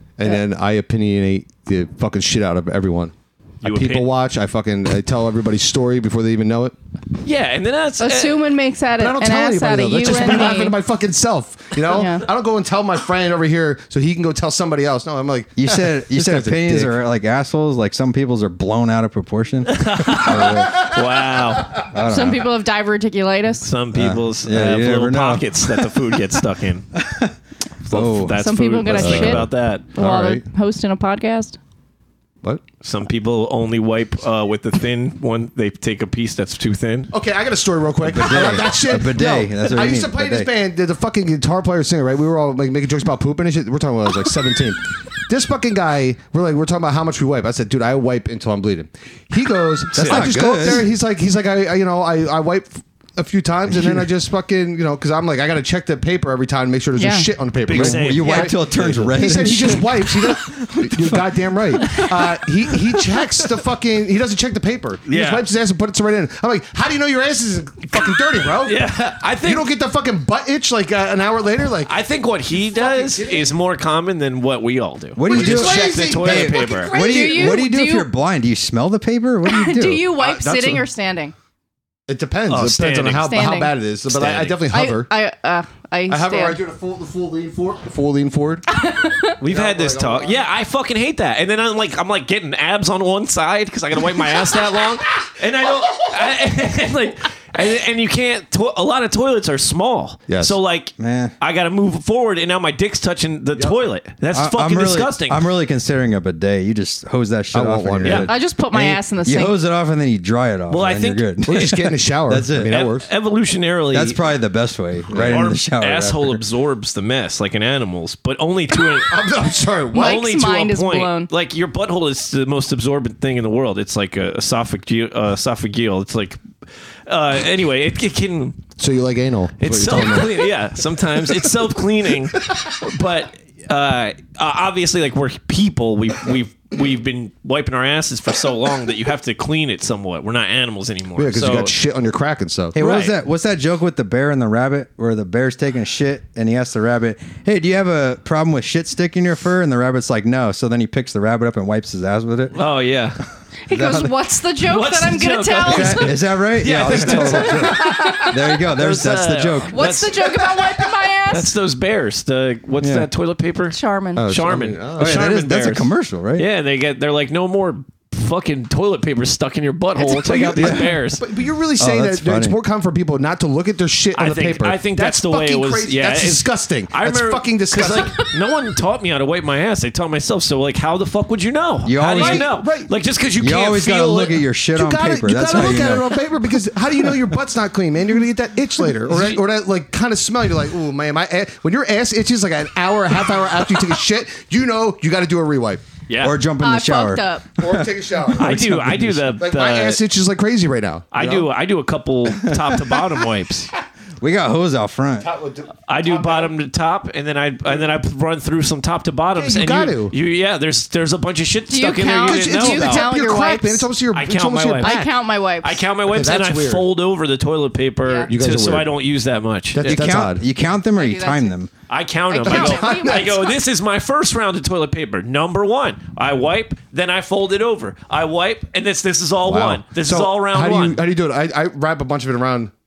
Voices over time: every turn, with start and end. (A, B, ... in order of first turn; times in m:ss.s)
0:00.2-0:06.7 A
0:03.6-0:04.1 B
0:07.2-0:08.4 B
0:08.0-0:10.8 C
0:09.0-0:16.9 A
0:11.9-0:12.3 C
0:15.6-0:20.9 D
0:19.7-0:21.8 B
0:20.2-0:21.0 A
0:21.9-0:22.5 D
0:22.0-0:23.7 C
0:23.6-0:26.9 B
0:23.9-0:25.9 D
0:26.9-0:27.3 D
0:27.8-0:29.9 B
0:27.9-0:28.4 D
0:28.3-0:31.6 C
0:28.9-0:30.4 A
0:32.8-0:37.1 B
0:37.1-1:08.8 A
0:38.0-0:40.5 D
0:49.9-0:50.7 B
0:49.9-0:50.9 D
0:53.7-0:54.0 D
0:57.0-0:57.3 C
0:57.6-0:58.6 B
0:57.7-1:02.0 D
1:01.9-1:02.3 B
1:05.1-1:05.5 B
1:08.0-1:09.7 B
1:09.4-1:11.9 A
1:11.8-1:16.9 B
1:12.6-1:13.5 A
1:15.2-1:20.0 D
1:15.3-1:17.6 A
1:16.7-1:18.1 C
1:19.4-1:21.3 C
1:20.2-1:20.8 A
1:22.1-1:25.1 A
1:22.5-1:23.3 B
1:23.2-1:23.7 C
1:24.1-1:24.6 B
1:24.7-1:26.6 C
1:26.1-1:28.6 A
1:28.7-1:29.4 C
1:29.4-1:45.4 B
1:29.4-1:30.4 A
1:40.3-1:40.5 A
1:41.0-1:41.3 D
1:44.3-1:52.8 D
1:47.5-1:48.3 A
1:48.0-1:48.3 B
1:48.2-1:49.5 C
1:50.7-1:51.7 B
1:51.4-1:53.1 A
1:52.7-1:54.2 B
1:53.9-1:56.4 D
1:55.1-1:55.4 A
1:55.1-1:59.2 B
1:58.9-2:00.2 A
1:59.9-2:01.3 C
1:59.9-2:06.4 B
2:07.1-2:08.6 B
2:08.8-2:10.5 A
2:09.6-2:21.7 B
2:12.3-2:12.7 A
2:21.2-2:22.8 A
2:22.7-2:32.6 D
2:22.8-2:23.1 B
2:32.5-2:33.2 B
2:33.7-2:36.2 C
2:33.7-2:34.1 D
2:34.6-2:51.2 B
2:35.6-2:40.0 D
2:36.8-2:37.7 A
2:37.3-2:38.3 C
2:39.7-2:41.5 C
2:42.8-2:43.1 D
2:43.7-2:44.3 C
2:44.2-2:45.3 A
2:45.0-2:46.5 D
2:50.0-2:50.5 C
2:50.3-2:58.2 A
2:50.5-2:51.0 D
2:51.8-2:52.6 D
2:54.1-3:04.4 B
3:01.8-3:02.5 D
3:02.1-3:02.9 A
3:03.4-3:06.2 D
3:04.7-3:15.8 A
3:09.1-3:09.4 B
3:16.1-3:16.4 B
3:16.2-3:19.4 D
3:16.6-3:17.5 C
3:17.6-3:18.6 A
3:18.4-3:20.0 B
3:19.4-3:21.5 A
3:21.1-3:23.7 B
3:22.4-3:22.8 D
3:24.2-3:25.3 D
3:25.2-3:26.5 A
3:25.9-3:33.1 B
3:29.3-3:30.1 A
3:31.7-3:33.9 C
3:32.2-3:35.1 A
3:34.1-3:35.0 B
3:34.8-3:35.8 C
3:35.6-3:40.0 B
3:36.0-3:36.8 A
3:38.0-3:38.3 C
3:38.3-3:38.9 A
3:39.7-3:40.4 A
3:39.8-3:41.7 D
3:41.0-3:41.5 C
3:41.9-3:51.0 B
3:42.3-3:43.5 C
3:42.4-3:43.4 A
3:49.4-3:52.7 A